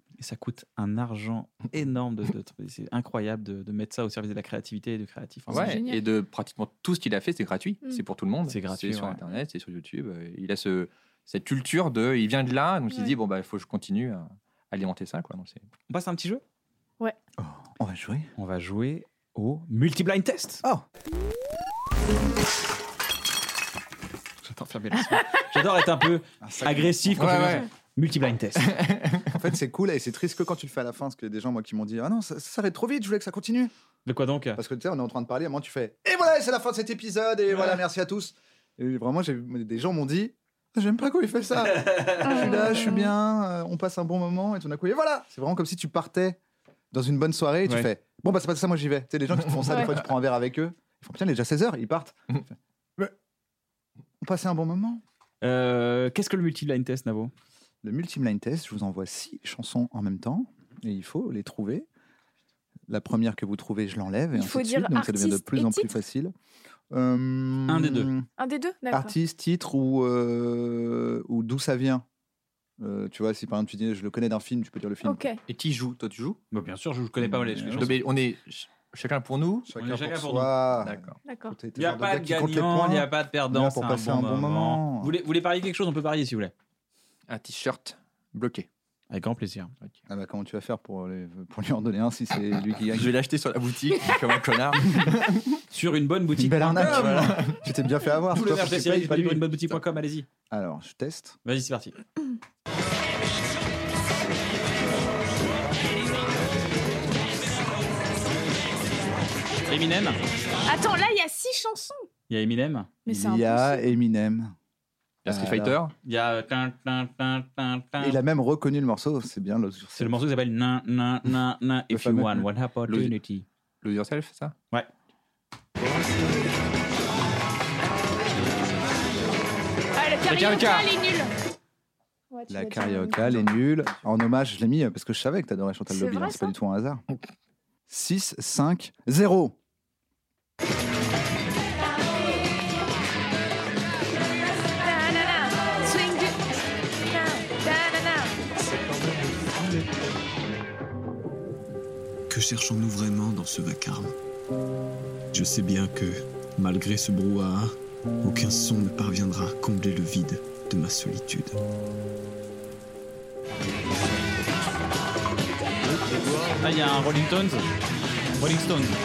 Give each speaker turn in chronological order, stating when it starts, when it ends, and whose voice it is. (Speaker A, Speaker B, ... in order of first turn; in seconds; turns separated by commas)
Speaker A: 0.2-5.8, Speaker B: 5.5-6.0, Speaker C: 5.5-15.6, Speaker A: 8.5-9.2, Speaker B: 12.9-13.1, Speaker A: 15.9-16.4, Speaker D: 17.4-18.3, Speaker A: 18.4-20.6, Speaker A: 24.4-28.7, Speaker D: 26.4-27.4, Speaker C: 27.1-27.6, Speaker C: 28.6-29.4, Speaker D: 29.3-33.7, Speaker A: 34.0-34.6, Speaker D: 34.5-46.4, Speaker A: 41.7-42.5, Speaker B: 42.2-43.1, Speaker D: 46.9-53.1, Speaker D: 54.2-55.0, Speaker A: 55.4-57.3, Speaker D: 57.8-61.9, Speaker D: 62.9-66.3, Speaker B: 64.3-65.9, Speaker D: 66.9-68.3, Speaker A: 67.7-68.1, Speaker B: 68.4-69.1, Speaker D: 68.9-72.0, Speaker D: 72.8-75.2, Speaker B: 75.0-75.4, Speaker C: 75.5-76.4, Speaker A: 76.5-78.0, Speaker D: 77.2-78.0, Speaker C: 77.8-79.7, Speaker D: 79.7-85.1, Speaker A: 79.8-80.5, Speaker C: 80.8-81.2, Speaker B: 81.2-81.6, Speaker A: 81.8-86.5, Speaker C: 87.3-88.7, Speaker A: 89.1-89.7, Speaker D: 90.1-93.1, Speaker C: 92.9-95.6, Speaker A: 95.7-97.3, Speaker D: 96.4-99.8, Speaker C: 96.7-97.6, Speaker A: 98.3-100.2, Speaker D: 100.5-101.3, Speaker A: 101.4-102.0, Speaker A: 109.7-110.2, Speaker B: 110.7-112.0, Speaker A: 112.3-112.9, Speaker B: 113.0-113.9, Speaker D: 113.1-114.5, Speaker C: 115.2-115.9, Speaker D: 115.2-115.8, Speaker A: 116.0-118.2, Speaker D: 118.0-120.2, Speaker A: 120.0-123.3, Speaker D: 121.9-122.5, Speaker C: 122.9-124.5, Speaker C: 125.8-126.5, Speaker B: 129.9-131.3, Speaker C: 130.3-130.9, Speaker B: 132.3-133.6, Speaker D: 132.5-137.0, Speaker B: 135.9-136.5, Speaker D: 137.9-139.6, Speaker B: 144.7-148.4, Speaker C: 148.6-149.8, Speaker E: 152.3-154.1, Speaker E: 155.3-161.6, Speaker C: 166.2-166.6, Speaker A: 166.6-167.6, Speaker A: 168.4-169.0